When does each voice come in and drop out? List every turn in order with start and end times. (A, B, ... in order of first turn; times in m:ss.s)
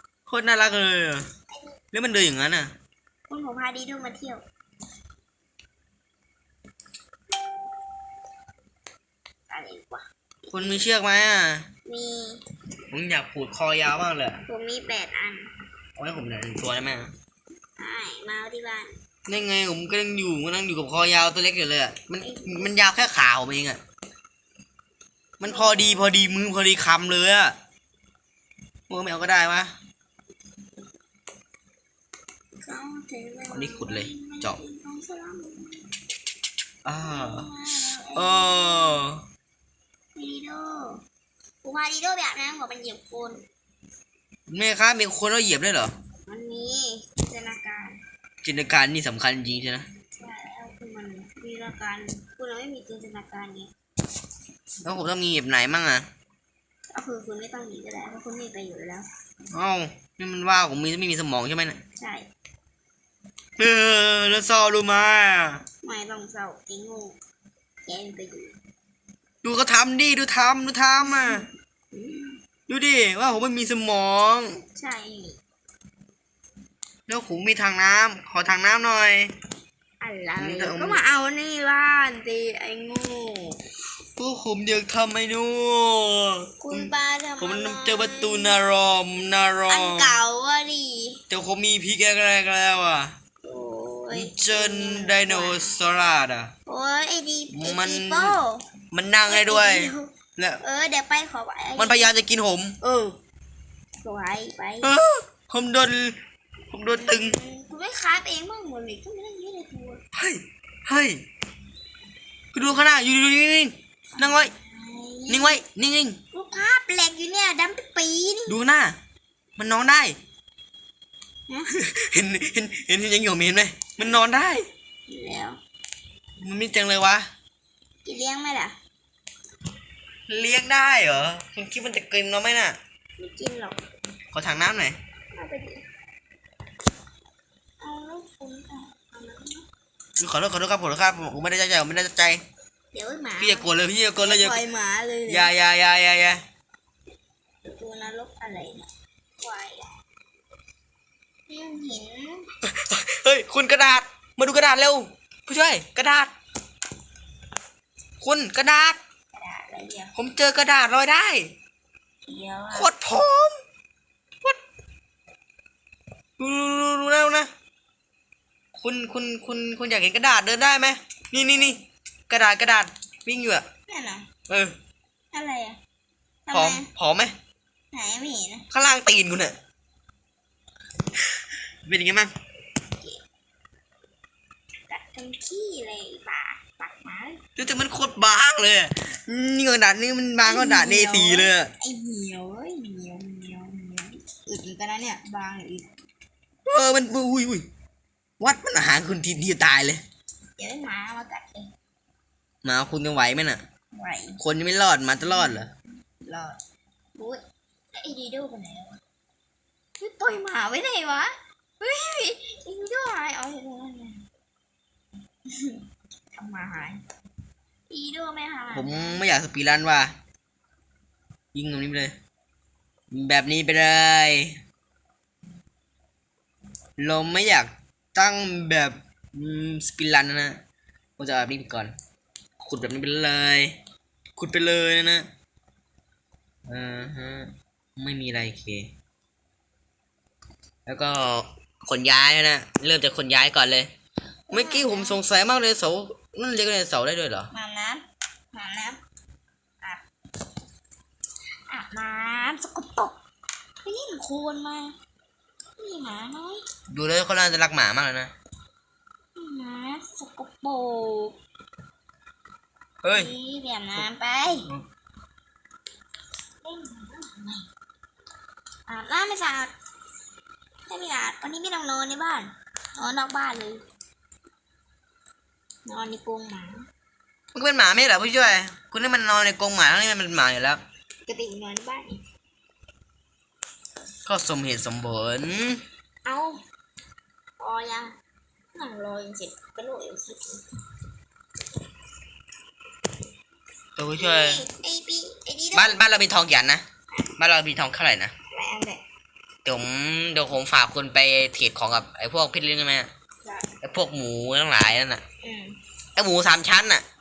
0:00.3-0:01.2 A
0:01.9-0:02.7 A
0:03.3-0:04.4 B
0:09.5-0:10.9 B
0:10.5-0:11.7 A
0:11.8-0:12.4 B
0:12.9-0:14.4 A
0:14.5-0:15.5 B
0:16.0-0:17.1 A
0:17.8-0:18.9 B
0:19.3-0:23.8 A
0:22.2-0:22.8 B
0:25.4-0:27.6 A
0:25.4-0:26.4 B
0:28.9-0:29.7 A
0:32.6-0:35.9 B
0:33.5-0:34.6 A
0:36.8-0:37.5 A
0:37.0-0:39.0 B
0:38.1-0:39.2 A
0:40.1-0:41.0 B
0:41.6-0:43.4 B
0:44.5-0:45.9 A
0:46.3-0:48.0 B
0:48.4-0:49.8 A
0:50.2-0:53.7 B
0:54.8-0:56.0 A
0:56.9-0:59.0 B
0:59.5-1:01.8 A
1:02.0-1:02.3 B
1:03.6-1:05.6 A
1:05.8-1:07.2 B
1:07.8-1:08.6 B
1:09.4-1:11.4 A
1:11.0-1:12.4 B
1:12.7-1:14.6 A
1:14.7-1:15.4 B
1:17.1-1:19.3 A
1:20.0-1:23.6 B
1:20.4-1:21.0 A
1:24.2-1:30.2 A
1:26.6-1:28.6 B
1:29.7-1:31.2 B
1:31.3-1:33.1 A
1:33.4-1:35.8 B
1:34.1-1:36.5 A
1:36.7-1:38.6 B
1:37.5-1:38.4 A
1:38.9-1:40.6 A
1:39.3-1:40.1 B
1:40.6-1:42.1 B
1:41.8-1:42.8 A
1:42.8-1:43.1 B
1:44.0-1:44.9 B
1:44.8-1:46.2 A
1:46.7-1:47.4 A
1:46.9-1:50.0 B
1:50.1-1:51.2 A
1:52.5-1:54.5 A
1:54.1-1:55.6 B
1:55.3-1:56.2 A
1:56.3-1:58.6 B
1:58.5-1:59.0 A
1:59.6-2:00.2 A
2:01.7-2:04.7 A
2:05.1-2:05.6 B
2:06.4-2:07.3 A
2:08.0-2:08.8 B
2:10.3-2:12.8 A
2:13.2-2:13.8 B
2:14.3-2:15.0 A
2:15.3-2:15.8 B
2:17.8-2:19.6 B
2:20.2-2:22.4 A
2:22.9-2:23.7 B
2:23.4-2:24.6 A
2:24.2-2:25.5 B
2:25.3-2:26.4 A
2:27.6-2:28.9 B
2:29.4-2:30.0 B
2:31.5-2:32.5 B
2:32.6-2:36.3 A
2:38.2-2:39.0 A
2:39.3-2:40.1 B
2:40.1-2:41.5 A
2:42.2-2:42.9 B
2:42.7-2:43.6 A
2:46.4-2:47.5 A
2:48.7-2:53.6 A
2:53.9-2:54.3 B
2:54.5-2:54.7 A
2:55.3-2:55.8 B
2:56.5-2:56.9 B
2:56.5-2:57.3 A
2:57.9-2:58.6 B
2:58.7-2:59.6 A
3:01.8-3:02.3 A
3:03.0-3:03.2 B
3:04.9-3:07.4 B
3:07.6-3:11.7 A
3:10.4-3:15.9 B
3:16.6-3:17.6 A
3:18.4-3:20.0 A
3:20.6-3:21.7 B
3:22.6-3:23.6 A
3:23.9-3:24.4 B
3:24.4-3:25.7 A
3:25.2-3:25.6 B
3:26.2-3:26.6 B
3:27.1-3:27.4 B
3:27.9-3:29.0 B
3:30.0-3:34.2 B
3:35.5-3:37.0 B
3:37.9-3:39.2 B
3:38.7-3:40.1 A
3:41.5-3:42.2 A
3:43.1-3:44.6 A
3:47.0-3:50.6 A
3:51.2-3:51.9 A
3:52.6-3:53.8 A
3:54.4-3:55.3 A
3:56.7-3:58.9 A
4:00.8-4:03.9 A
4:04.5-4:05.2 B
4:04.5-4:07.5 A
4:07.5-4:09.0 B
4:11.7-4:13.2 B
4:13.8-4:14.9 B
4:15.8-4:16.6 B
4:16.9-4:18.3 A
4:19.4-4:21.4 B
4:23.0-4:23.3 A
4:23.1-4:24.7 B
4:26.6-4:27.7 B
4:28.9-4:29.7 B
4:30.9-4:33.8 B
4:35.8-4:36.8 B
4:37.5-4:40.8 A
4:41.2-4:42.2 B
4:44.2-4:45.8 A
4:46.2-4:46.6 B
4:47.6-4:48.2 B
4:48.7-4:50.6 B
4:54.0-4:54.6 A
4:54.2-4:56.0 B
4:55.7-4:56.8 A
4:57.4-4:58.3 A
4:58.5-4:59.0 B
4:59.6-5:03.1 A
5:03.4-5:03.7 B
5:03.8-5:05.2 A
5:05.4-5:05.8 B
5:06.2-5:07.0 A